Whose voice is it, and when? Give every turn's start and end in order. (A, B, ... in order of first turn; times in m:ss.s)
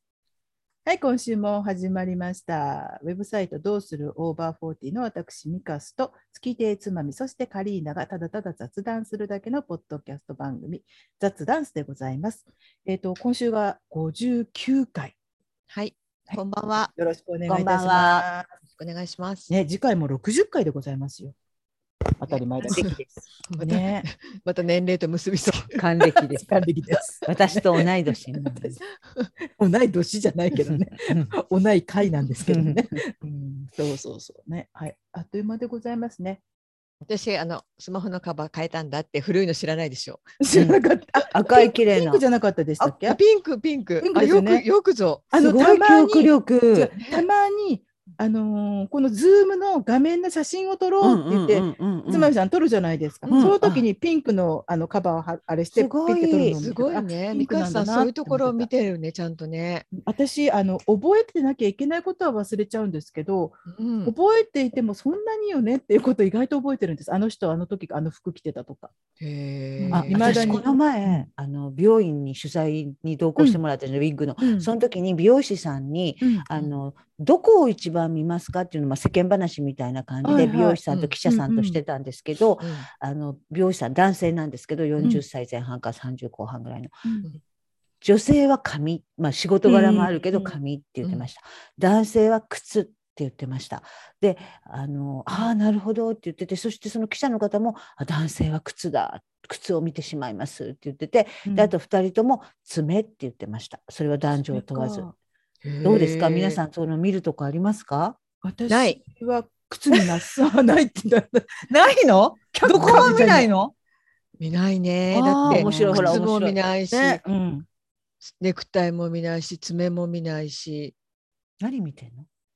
0:00.8-0:15.1 A
0:15.7-0:16.9 B
0:16.9-0:18.5 A
0:17.5-0:18.2 C
0:18.7-0:19.5 B
0:19.5-0:21.4 A
0:22.2-0:23.0 A
0:22.7-0:23.0 C
0:22.7-0:25.8 B
0:23.6-0:24.1 A
0:25.7-0:26.5 C
0:26.1-0:28.8 A
0:27.2-0:28.8 C
0:29.0-0:29.3 B
0:29.6-0:36.4 A
0:30.7-0:31.3 C
0:32.5-0:33.0 C
0:37.1-0:40.3 B
0:40.4-0:43.2 A
0:40.5-0:42.2 C
0:43.1-0:45.3 B
0:44.0-0:44.6 A
0:45.3-0:58.7 A
0:45.3-0:46.9 C
0:51.0-0:52.3 C
0:53.3-0:53.8 C
0:55.7-0:56.6 C
0:56.5-0:59.8 B
0:59.9-1:08.9 A
1:03.7-1:04.1 B
1:09.2-1:10.6 B
1:09.8-1:11.3 A
1:09.9-1:26.9 C
1:13.4-1:13.6 A
1:14.4-1:14.7 A
1:16.2-1:16.5 A
1:20.2-1:21.8 A
1:20.3-1:21.1 B
1:22.6-1:22.8 B
1:27.0-1:27.3 A
1:28.0-1:45.1 C
1:29.6-1:30.5 A
1:41.4-1:41.7 A
1:44.5-1:45.1 A
1:45.6-1:46.6 B
1:45.8-1:48.2 C
1:48.4-1:51.7 A
1:48.7-1:49.0 B
1:51.7-1:53.7 C
1:52.6-1:53.5 A
1:52.7-1:53.1 B
1:54.4-1:57.2 B
1:55.1-1:56.6 C
1:55.4-1:56.2 A
1:56.9-1:57.6 A
1:58.3-2:00.9 B
2:01.6-2:02.3 C